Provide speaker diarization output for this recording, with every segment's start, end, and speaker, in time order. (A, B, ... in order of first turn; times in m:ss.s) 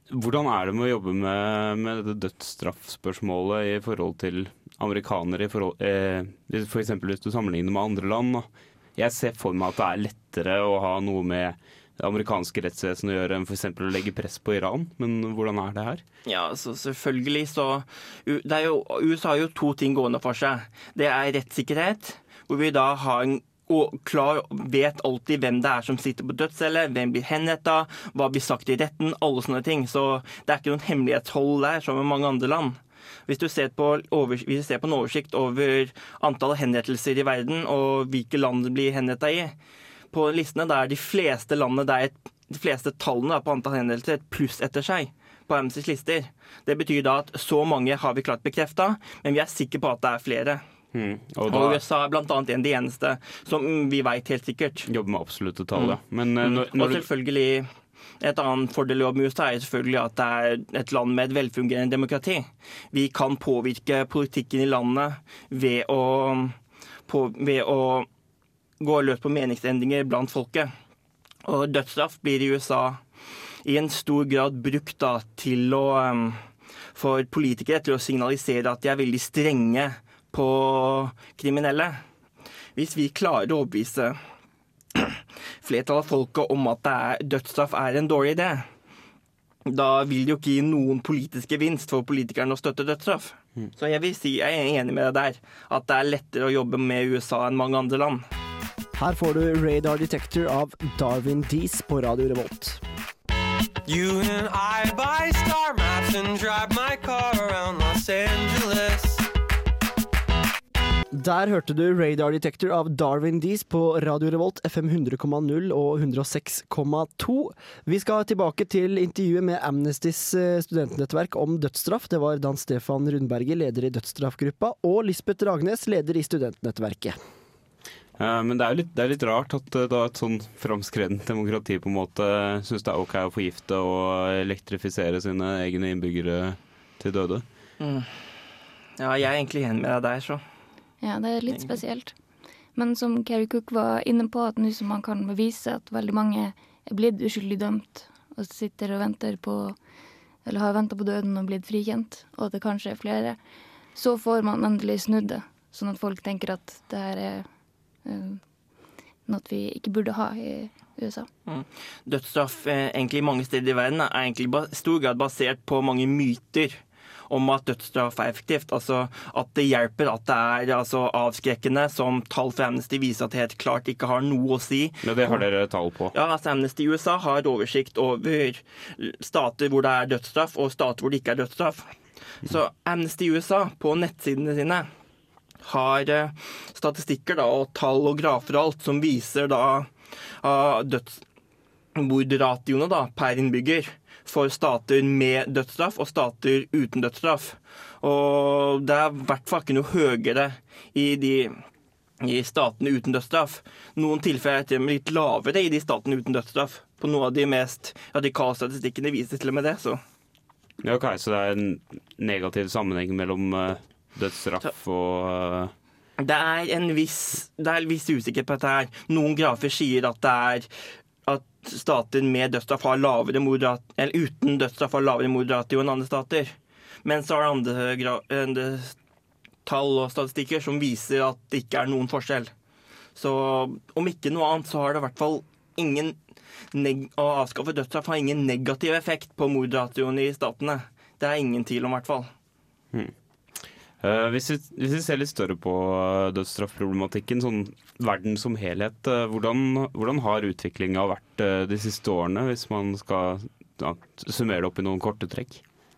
0:00.1-0:16.0 A
0:16.2-0:39.6 B
0:40.1-0:50.6 B
0:50.9-0:51.8 A
0:51.5-0:54.9 B
0:54.9-0:57.1 A
0:55.8-0:57.7 B
0:58.2-1:08.1 B
1:08.8-1:10.7 B
1:11.4-1:13.0 B
1:13.6-1:22.0 B
1:22.8-1:24.2 B
1:25.0-1:28.7 B
1:29.7-1:38.3 B
1:39.0-1:42.8 C
1:43.9-1:49.2 D
1:51.1-2:07.2 C
2:08.2-2:17.4 A
2:17.8-2:18.1 B
2:19.0-2:20.4 B
2:21.0-2:22.1 E
2:21.5-2:21.8 B
2:22.8-2:29.8 E
2:30.4-2:33.4 E
2:33.9-2:37.5 E
2:38.0-2:38.4 E
2:39.3-2:41.3 E
2:41.4-2:55.5 B
2:55.0-2:56.1 A
2:56.1-3:04.9 B
3:05.6-3:11.2 B
3:12.0-3:21.6 B
3:22.2-3:30.0 B
3:30.8-3:35.7 A
3:36.2-3:40.7 B
3:41.2-3:49.0 B
3:49.6-3:52.5 B
3:53.2-3:56.2 B
3:56.7-4:02.3 B
4:04.0-4:15.6 A